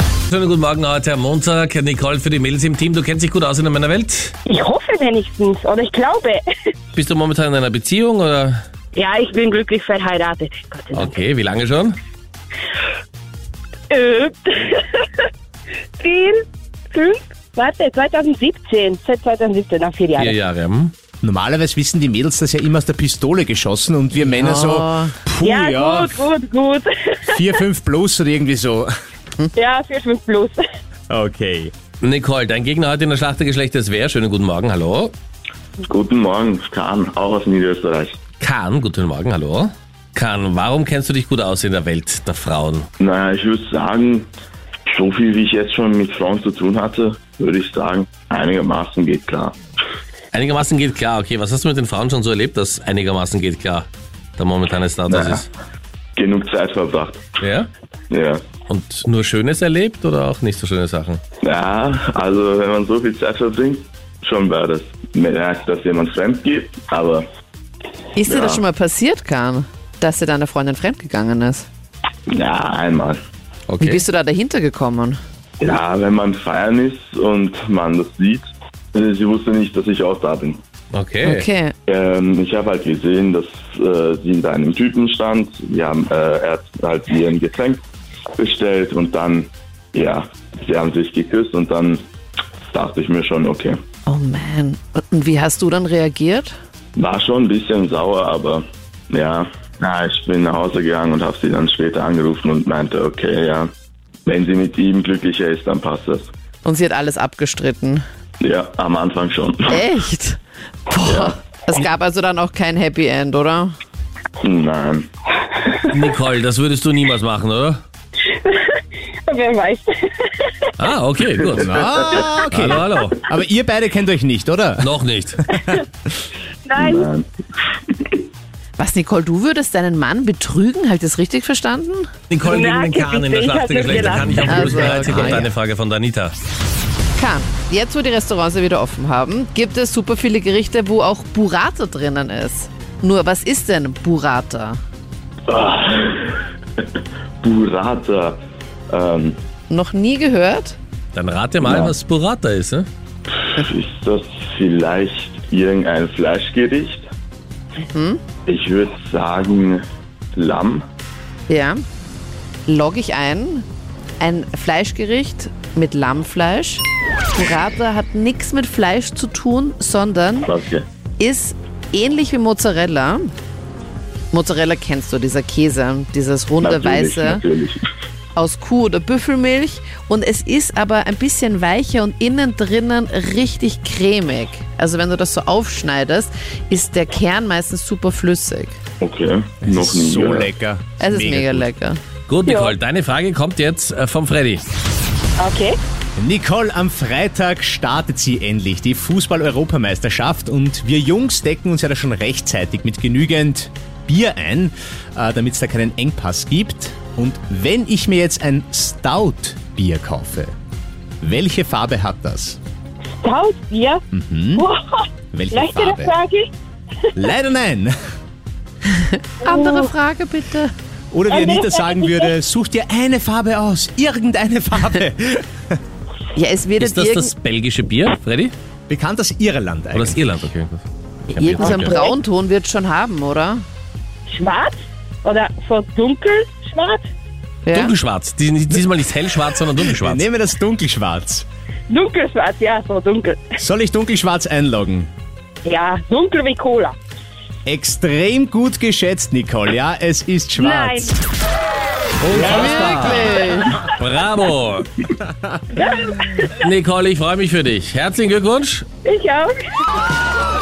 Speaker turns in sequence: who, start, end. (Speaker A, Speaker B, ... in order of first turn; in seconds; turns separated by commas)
Speaker A: 0.3-4.3, Speaker B: 4.5-6.4, Speaker A: 6.9-8.6, Speaker B: 8.9-11.2, Speaker A: 10.9-11.9, Speaker B: 13.9-15.3, Speaker B: 16.0-20.4, Speaker A: 20.1-20.9, Speaker C: 21.2-26.1, Speaker D: 24.2-25.1, Speaker B: 25.4-27.5, Speaker C: 27.3-28.9, Speaker B: 29.5-30.6, Speaker C: 31.1-31.7, Speaker A: 32.0-35.1, Speaker E: 35.8-38.2, Speaker A: 38.4-42.9, Speaker E: 43.0-44.3, Speaker E: 44.9-49.6, Speaker A: 50.3-55.5, Speaker E: 55.1-55.4, Speaker E: 56.1-57.3, Speaker A: 57.4-57.7, Speaker E: 58.1-58.4, Speaker A: 58.7-61.2, Speaker E: 61.4-67.3, Speaker D: 68.1-71.7, Speaker E: 68.2-68.6, Speaker E: 72.3-73.2, Speaker A: 73.7-74.0, Speaker D: 73.8-75.2, Speaker E: 75.6-80.6, Speaker A: 80.9-81.5, Speaker D: 81.2-81.7, Speaker E: 81.9-87.8, Speaker E: 88.4-92.0, Speaker E: 92.7-93.8, Speaker D: 94.1-96.5, Speaker E: 97.0-103.7, Speaker E: 104.2-106.3, Speaker D: 106.6-108.0, Speaker E: 108.4-109.8, Speaker D: 109.7-113.7, Speaker E: 111.0-111.4, Speaker E: 114.4-115.1, Speaker A: 115.9-117.8, Speaker B: 118.2-120.7, Speaker A: 120.8-121.7, Speaker C: 121.6-125.8, Speaker A: 122.5-123.2, Speaker A: 124.8-125.5, Speaker B: 126.7-127.1, Speaker E: 126.8-127.3, Speaker D: 128.8-132.1, Speaker A: 132.3-136.3, Speaker B: 132.4-134.6, Speaker C: 134.1-135.5, Speaker D: 134.4-135.4, Speaker D: 137.2-144.8, Speaker E: 145.5-146.4, Speaker E: 147.4-148.4, Speaker E: 148.9-149.4, Speaker D: 149.7-150.8, Speaker A: 151.1-152.9, Speaker E: 151.6-151.9, Speaker E: 153.3-157.1, Speaker D: 157.9-158.2, Speaker E: 158.4-159.8, Speaker E: 160.3-160.8, Speaker D: 161.5-161.8, Speaker D: 162.7-163.7, Speaker D: 164.2-166.8, Speaker D: 167.3-170.5, Speaker E: 170.4-170.8, Speaker D: 171.2-173.3, Speaker D: 174.3-177.4, Speaker E: 176.6-177.8, Speaker D: 178.3-188.8, Speaker E: 189.0-190.5, Speaker C: 189.6-191.7, Speaker D: 191.0-192.0, Speaker A: 192.3-194.6, Speaker B: 192.4-192.7, Speaker B: 195.4-195.8, Speaker C: 196.2-210.5, Speaker C: 211.2-212.6, Speaker B: 213.2-214.0, Speaker C: 214.1-214.6, Speaker B: 214.6-216.5, Speaker C: 215.3-216.1, Speaker C: 217.2-217.9, Speaker D: 218.9-220.7, Speaker B: 219.4-219.9, Speaker C: 221.1-225.8, Speaker B: 221.3-222.3, Speaker D: 226.3-227.3, Speaker A: 226.8-228.5, Speaker C: 228.9-230.2, Speaker A: 229.9-230.8, Speaker D: 231.3-233.6, Speaker A: 231.3-231.9, Speaker B: 231.6-232.2, Speaker B: 234.3-237.0, Speaker D: 237.6-237.9, Speaker A: 237.7-240.2, Speaker C: 239.6-241.4, Speaker B: 241.9-243.5, Speaker C: 243.6-245.1, Speaker B: 245.6-246.9, Speaker C: 247.7-251.2, Speaker B: 250.6-251.2, Speaker A: 252.2-254.9, Speaker C: 252.3-253.3, Speaker D: 252.3-253.8, Speaker C: 255.2-255.5, Speaker B: 255.7-256.6, Speaker A: 256.6-258.9, Speaker B: 259.0-259.6